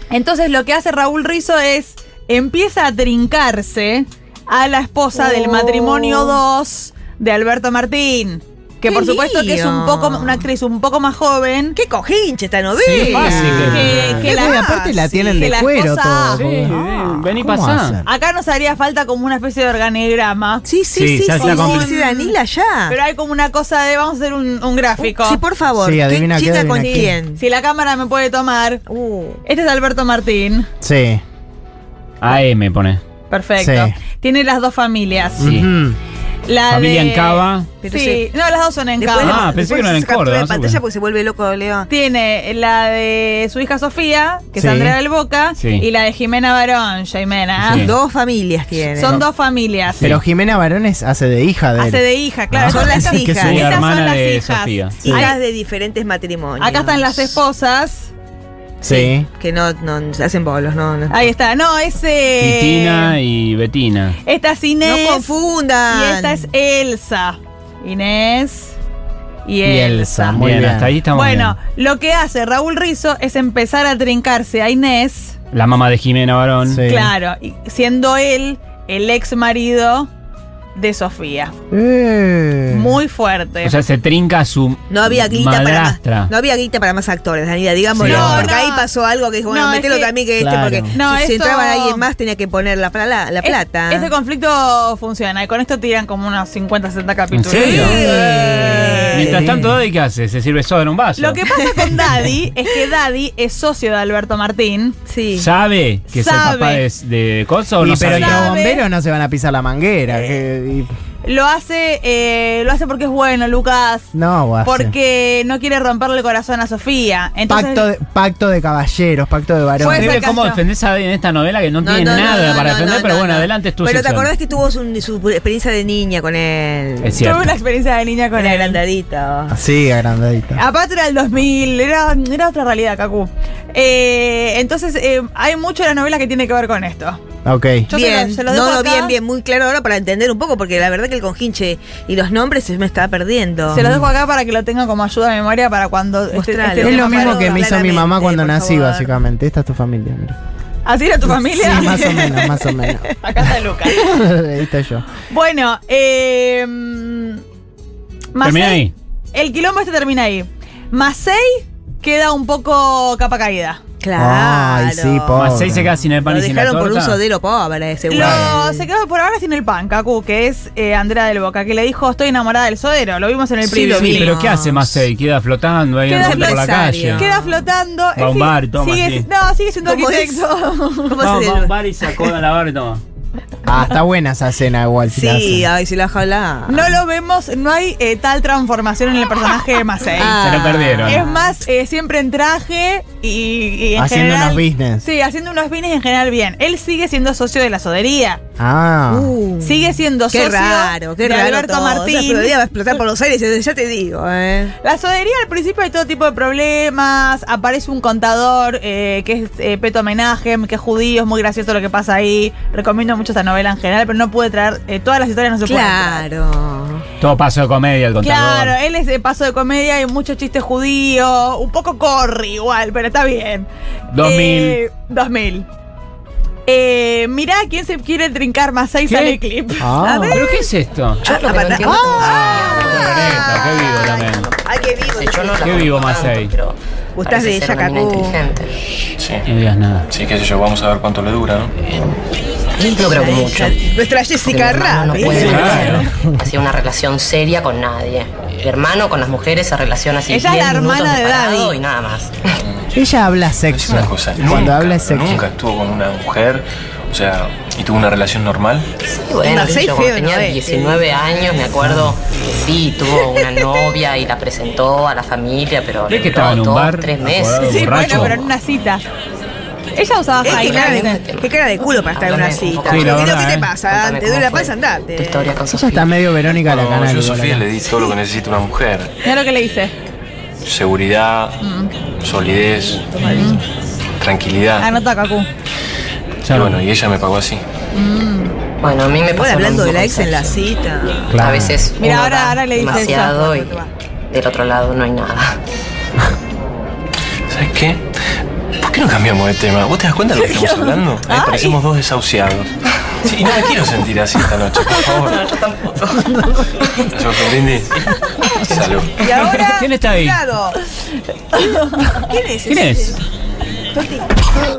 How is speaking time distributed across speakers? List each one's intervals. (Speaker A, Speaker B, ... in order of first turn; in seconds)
Speaker A: 0.1-11.8, 13.2-16.4, 18.1-20.6, 21.4-22.3, 22.9-25.4, 26.7-28.8, 29.4-30.7, 33.3-35.4, 36.5-39.5, 41.9-47.9, 49.0-50.0, 51.8-55.4, 56.6-58.1, 61.1-63.1, 64.2-65.3, 65.9-68.8, 69.5-70.4, 71.1-75.4, 76.8-80.1, 80.8-81.5, 82.7-83.8, 88.0-88.9, 89.5-90.1, 90.9-92.1, 93.4-99.4, 101.2-105.0, 106.1-106.8, 108.2-108.8, 111.2-114.1, 114.6-117.9, 119.8-120.6, 127.2-128.8, 130.6-137.2, 137.9-139.2, 143.7-147.7, 150.9-152.2, 153.2-154.0, 155.3-157.4, 158.3-158.8, 159.3-163.8, 168.1-174.4, 176.1-181.2, 186.7-190.4, 191.1-198.4, 199.6-202.6, 204.8-216.2, 218.2-223.7, 224.2-225.7, 226.7-230.2, 250.3-251.8, 267.6-269.0, 270.0-271.2, 279.2-279.9, 281.6-281.9, 283.2-283.6, 284.8-285.5, 287.9-288.5, 292.0-293.7, 300.6-301.8, 311.5-312.2
Speaker B: 5.2-6.4, 8.8-10.5, 11.8-15.5, 20.6-23.0, 25.0-27.4, 28.9-29.4, 37.8-38.3, 39.0-41.9, 47.7-49.2, 52.7-53.8, 55.0-57.4, 58.8-61.3, 64.8-66.4, 84.9-94.1, 97.5-99.5, 101.6-102.2, 105.1-105.5, 121.8-127.2, 128.4-129.6, 137.9-143.9, 146.3-149.1, 151.6-153.0, 164.0-168.9, 173.7-175.0, 176.1-177.6, 179.8-180.5, 181.1-181.7, 185.1-187.0, 190.1-191.6, 199.1-204.7, 215.7-217.0, 230.0-230.7, 231.2-236.0, 237.2-238.4, 242.8-246.1, 259.4-261.1, 263.3-263.6, 270.4-275.6, 283.0-283.6, 289.3-291.6, 292.8-293.9, 309.2-310.8, 312.1-313.2, 313.9-314.4
Speaker C: 12.8-14.3, 16.4-18.0, 20.9-21.9, 32.2-33.0, 35.4-35.7, 36.7-37.7, 39.2-40.8, 45.6-45.9, 47.6-47.9, 52.5-55.0, 62.4-64.2, 70.3-71.6, 75.5-76.8, 83.6-86.3, 88.0-88.5, 97.3-98.0, 99.1-101.4, 105.4-108.5, 119.8-124.3, 127.0-127.5, 158.4-158.9, 165.4-167.2, 168.2-168.5, 173.8-177.2, 178.2-179.3, 181.2-183.0, 190.3-191.2, 217.2-218.8, 224.1-224.8, 229.1-229.4, 230.3-231.3, 232.2-234.5, 235.6-236.5, 239.5-240.1, 245.3-246.1, 266.1-268.5, 272.9-273.7, 286.4-286.8, 309.4-310.4, 312.7-313.2
Speaker D: 12.8-18.1, 25.8-27.2, 30.8-31.2, 33.6-34.0, 35.4-36.0, 44.6-45.0, 50.0-52.0, 58.8-59.3, 69.6-70.9, 76.7-77.1, 81.7-83.0, 90.4-90.9, 97.8-99.8, 107.8-110.9, 114.1-114.9, 117.5-120.2, 129.5-130.6, 137.4-137.9, 143.8-144.1, 146.8-150.4, 151.3-153.2, 153.9-155.1, 164.2-166.0, 183.7-185.7, 194.0-195.1, 198.6-199.3, 229.8-230.4, 231.8-232.2, 245.2-246.4, 252.9-255.4, 261.8-262.1, 275.7-277.6, 291.3-291.8, 306.3-306.6
Speaker E: 231.2-234.5, 235.1-238.9, 241.8-242.2, 242.8-243.9, 244.4-252.6, 259.0-268.3, 270.5-276.1, 288.8-290.6, 291.3-293.8, 294.3-295.6
Speaker F: 239.2-239.4, 240.1-241.8, 252.6-252.9, 253.7-258.9, 276.4-279.1, 280.6-281.6, 282.2-283.1, 284.2-284.9, 286.5-287.6, 297.5-298.1, 298.8-305.6, 307.1-308.0, 308.6-309.1